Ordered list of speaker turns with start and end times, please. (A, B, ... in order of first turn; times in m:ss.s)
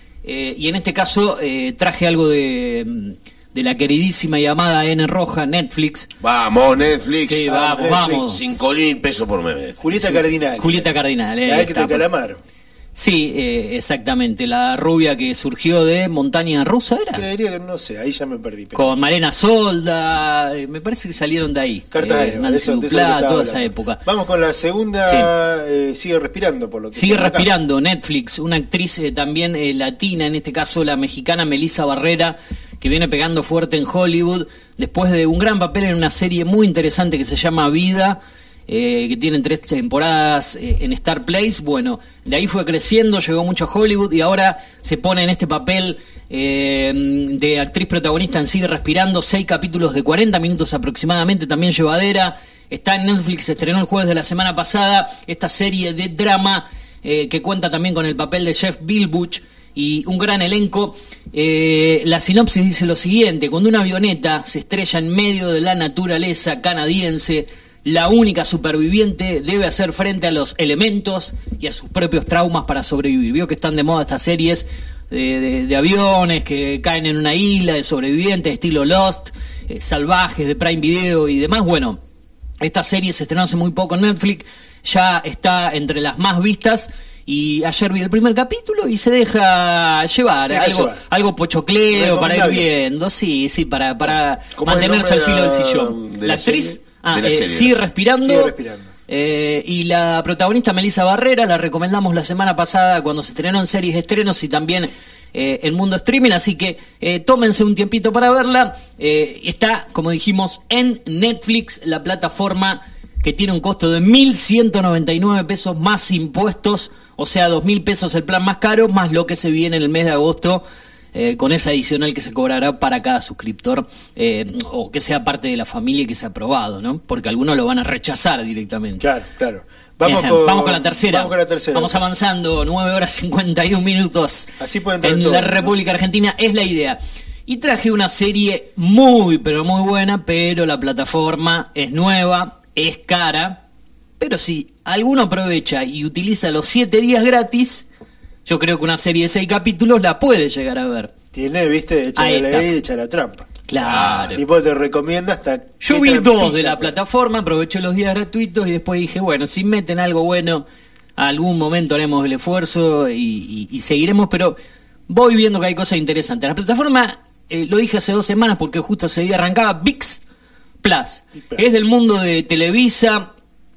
0:00.2-0:06.1 A
0:06.2-0:07.6 B
0:07.2-0:08.6 A
0:07.5-0:08.3 C
0:08.1-0:09.8 B
0:09.8-0:10.9 C
0:10.0-0:12.0 A
0:11.4-0:12.4 C
0:13.0-0:17.2 A
0:17.1-0:18.9 C
0:18.7-0:24.0 A
0:21.9-0:27.5 C
0:26.9-1:22.0 A
1:22.6-1:38.5 A
1:30.5-1:31.0 C
1:31.9-1:32.7 C
1:34.6-1:37.9 B
1:38.2-1:38.9 C
1:39.1-2:09.0 A
2:09.0-2:12.0 C
2:10.0-2:23.6 A
2:14.6-2:15.7 C
2:24.2-2:27.8 A
2:28.4-2:31.1 A
2:31.3-2:36.9 C
2:32.2-2:32.7 A
2:33.7-2:34.4 A
2:33.8-2:34.3 B
2:35.8-2:40.6 A
2:41.2-2:44.6 A
2:45.1-2:50.2 A
2:50.8-2:53.3 A
2:51.4-2:51.6 C